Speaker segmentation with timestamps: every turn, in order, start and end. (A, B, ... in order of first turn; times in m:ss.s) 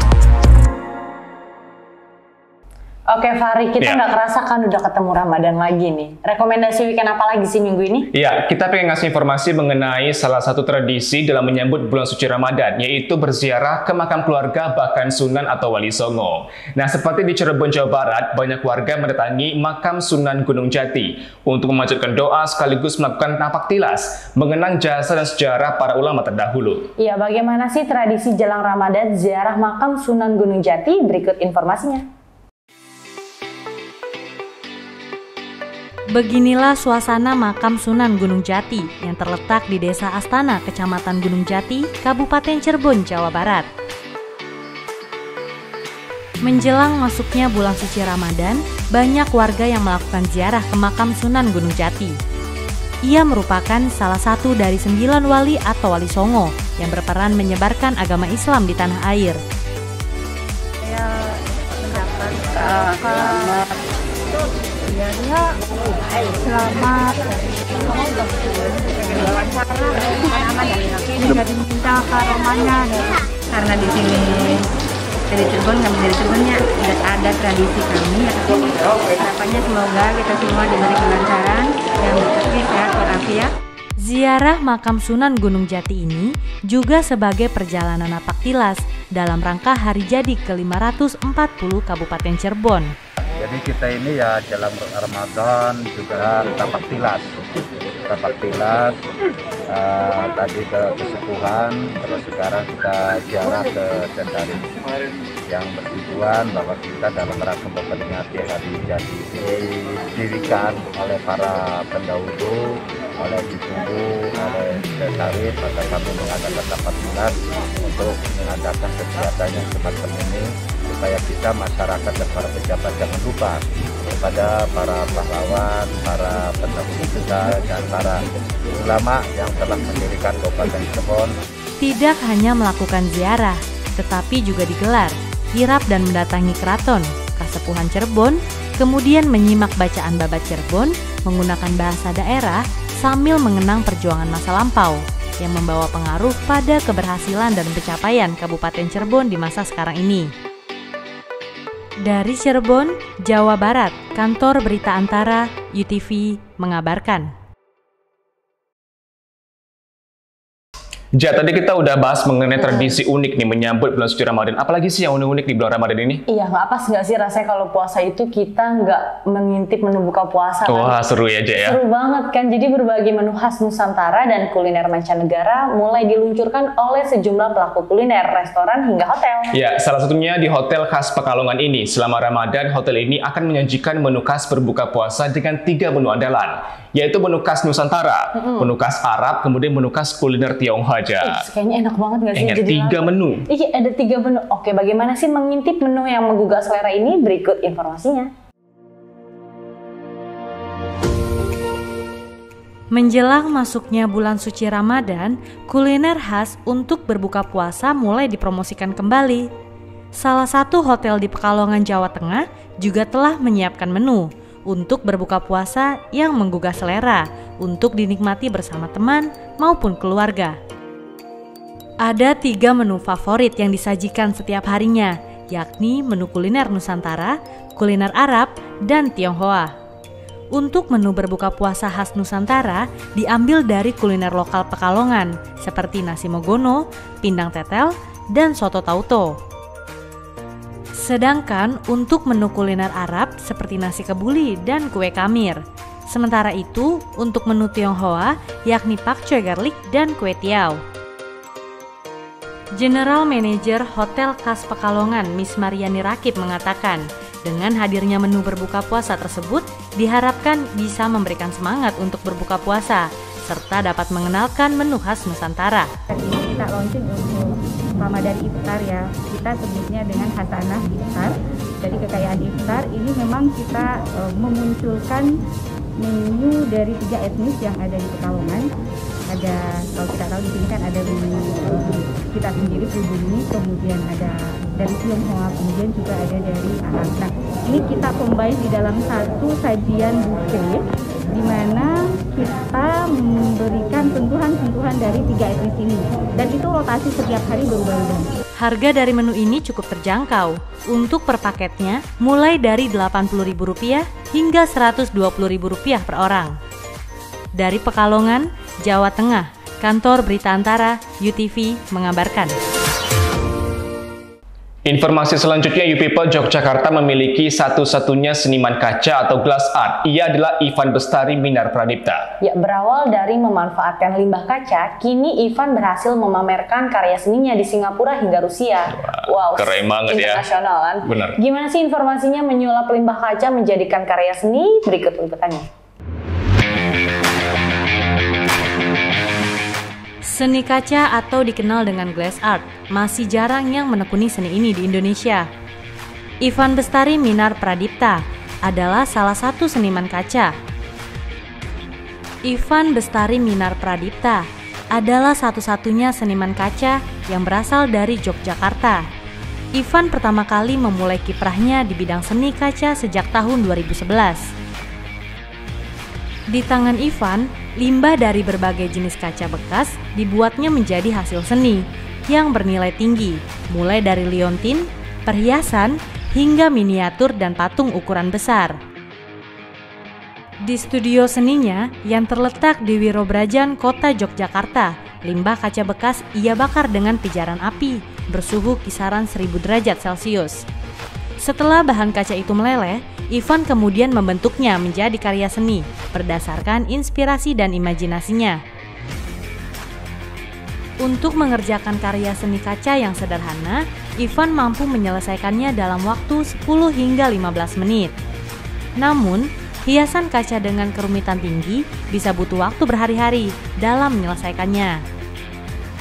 0:03.2-0:08.0 A
0:08.1-0:26.9 B
0:27.1-0:27.4 A
0:28.0-0:28.6 A
0:36.1-0:43.7 C
0:46.4-0:52.2 C
0:53.0-0:59.4 C
1:00.8-1:01.1 D
1:01.8-1:03.6 D
1:04.9-1:05.5 D
1:06.4-1:07.3 D
1:07.9-1:14.6 D
1:15.3-1:23.5 D
1:24.0-1:32.9 C
1:33.4-1:37.4 E
1:38.1-1:39.0 E
1:39.7-1:44.7 E
1:45.5-2:11.3 E
2:11.8-2:30.3 C
2:32.0-2:37.3 C
2:41.1-2:46.2 B
2:46.5-2:50.6 A
2:50.6-2:51.8 B
2:51.9-2:59.4 A
2:59.5-3:11.5 B
3:11.6-3:12.6 A
3:12.3-3:13.4 B
3:13.5-3:18.2 A
3:22.9-3:29.5 C
3:30.1-3:40.6 C
3:42.0-3:49.7 C
3:50.5-3:59.4 C
4:00.9-4:10.8 C
4:12.8-4:25.9 C
4:26.1-4:35.3 D
4:36.0-4:38.7 D
4:39.3-4:58.3 D
4:58.6-5:06.6 C
5:07.6-5:12.5 C
5:14.8-5:22.3 B
5:22.5-5:28.8 A
5:29.0-5:30.5 B
5:30.6-5:35.6 A
5:31.0-5:31.4 B
5:40.2-5:45.5 C
5:46.4-5:50.5 C
5:52.4-5:59.0 C
5:59.7-6:04.4 C
6:06.5-6:18.8 C
6:20.6-6:30.6 C
6:31.4-6:38.6 C
6:41.0-6:48.1 C
6:49.0-6:55.0 C